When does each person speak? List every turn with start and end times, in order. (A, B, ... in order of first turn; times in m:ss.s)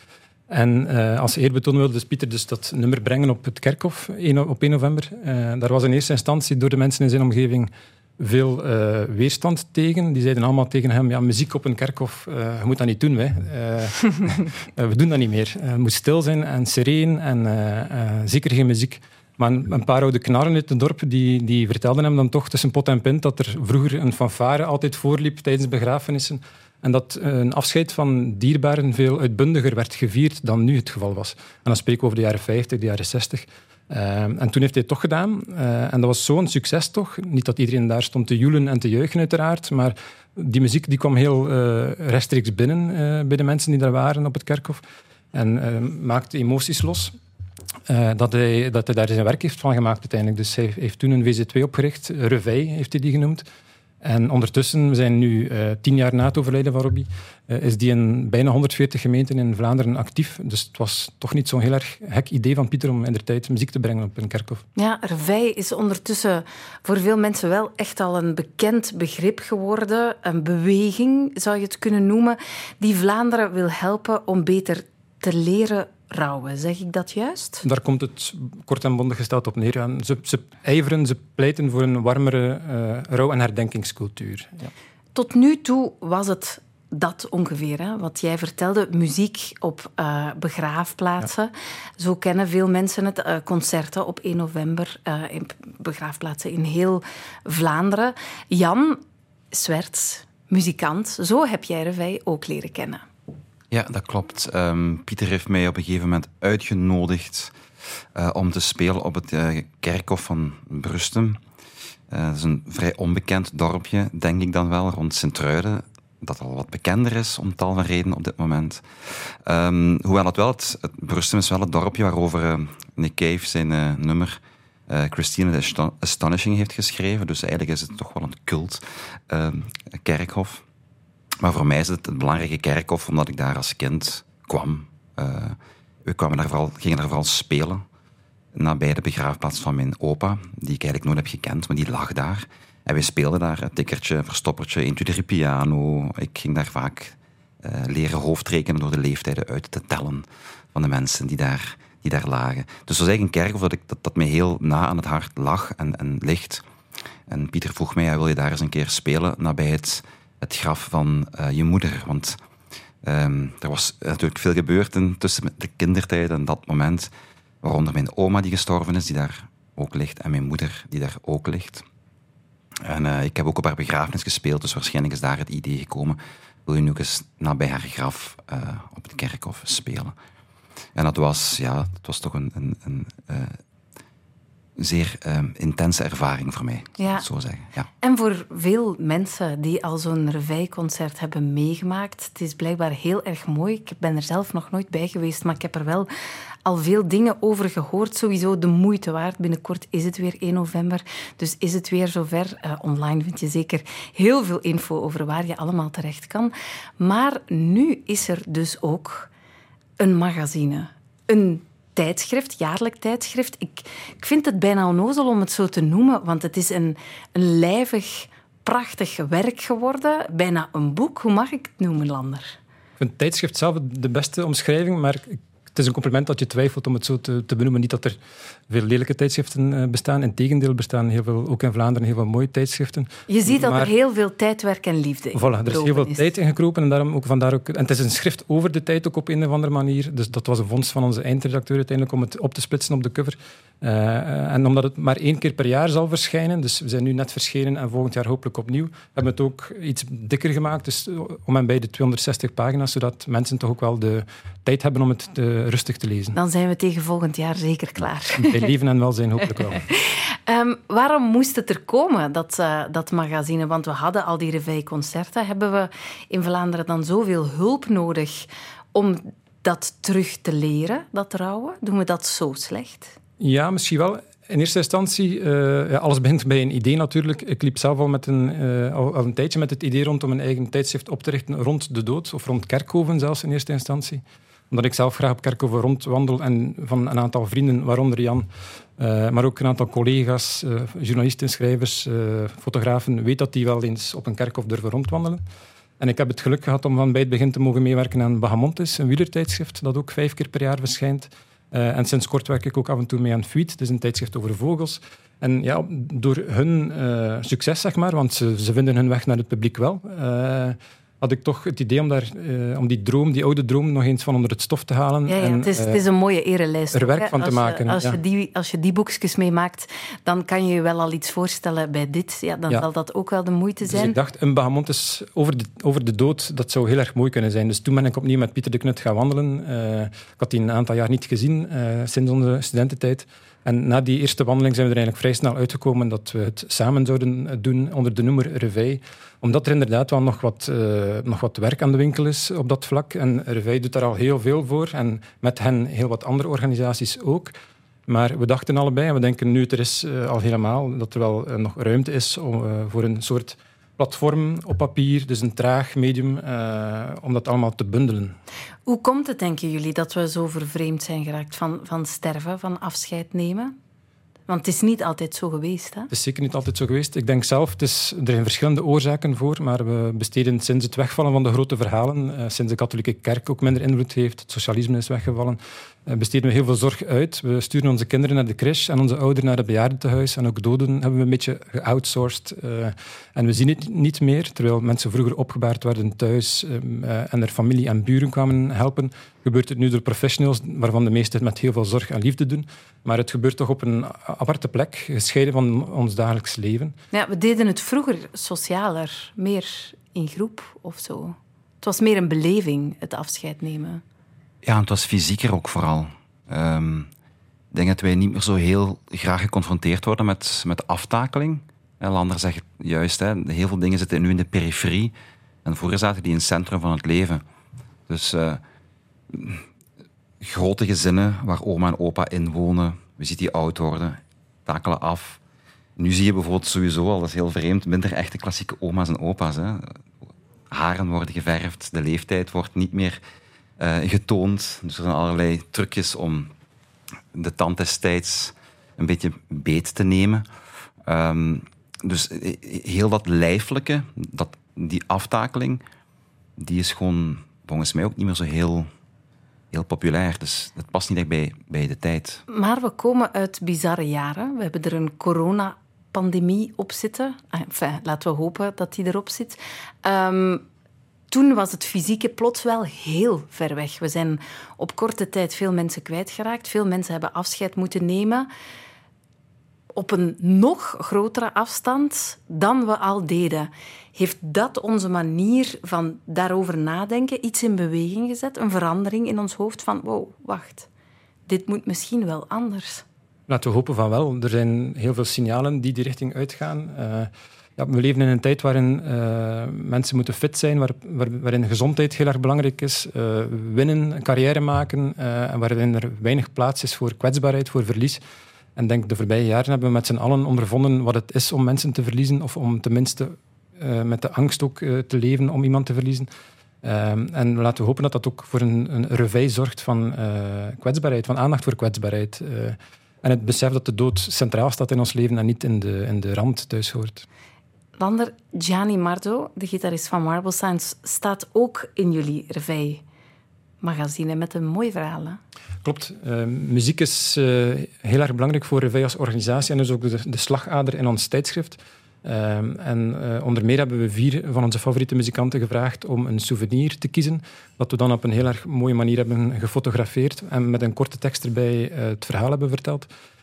0:00.5-0:44.8 A
0:45.3-0:47.1 A
0:47.9-0:53.4 A
0:54.0-1:04.6 A
1:04.8-1:17.6 B
1:17.6-1:24.7 A
1:25.2-1:43.0 B
1:43.7-1:47.5 C
1:48.2-1:51.4 C
1:52.1-2:10.6 C
2:11.4-2:17.8 C
2:18.5-2:36.6 C
2:37.3-2:42.4 C
2:43.0-2:47.1 C
2:47.6-2:51.8 C
2:52.8-3:00.2 C
3:01.0-3:03.6 C
3:04.8-3:07.9 C
3:07.0-3:07.3 B
3:08.0-3:16.1 B
3:16.6-3:29.3 B
3:30.0-3:42.5 B
3:43.0-3:48.2 A
3:48.7-3:53.9 A
3:53.3-3:56.2 B
3:55.3-4:16.4 A
4:16.3-4:18.6 B
4:18.4-4:19.8 A
4:19.8-4:33.1 B
4:33.4-4:48.5 A
4:49.0-4:55.4 A
4:56.0-5:16.0 A
5:15.3-5:24.2 B
5:16.9-5:18.2 A
5:23.8-5:47.5 A
5:48.1-5:58.4 A
5:58.9-6:03.8 B
6:04.5-6:06.1 B
6:06.1-6:37.0 A
6:37.1-6:44.0 B
6:44.6-6:47.1 C
6:47.7-6:55.1 C
6:55.6-6:57.4 C
6:58.1-6:58.6 C
6:59.3-6:59.6 C
7:00.4-7:05.4 C
7:06.0-7:10.0 C
7:10.7-7:13.2 C
7:13.8-7:16.5 C
7:17.3-7:20.4 C
7:21.1-7:25.8 C
7:26.6-7:28.9 C
7:29.7-7:32.4 C
7:32.5-7:40.6 B
7:41.3-7:48.5 B
7:50.0-8:00.9 B
8:01.5-8:03.0 B
8:03.5-8:18.2 A
8:18.8-8:26.3 A
8:26.8-8:37.2 A
8:38.0-8:43.0 B
8:43.8-8:45.4 B
8:45.8-9:03.1 A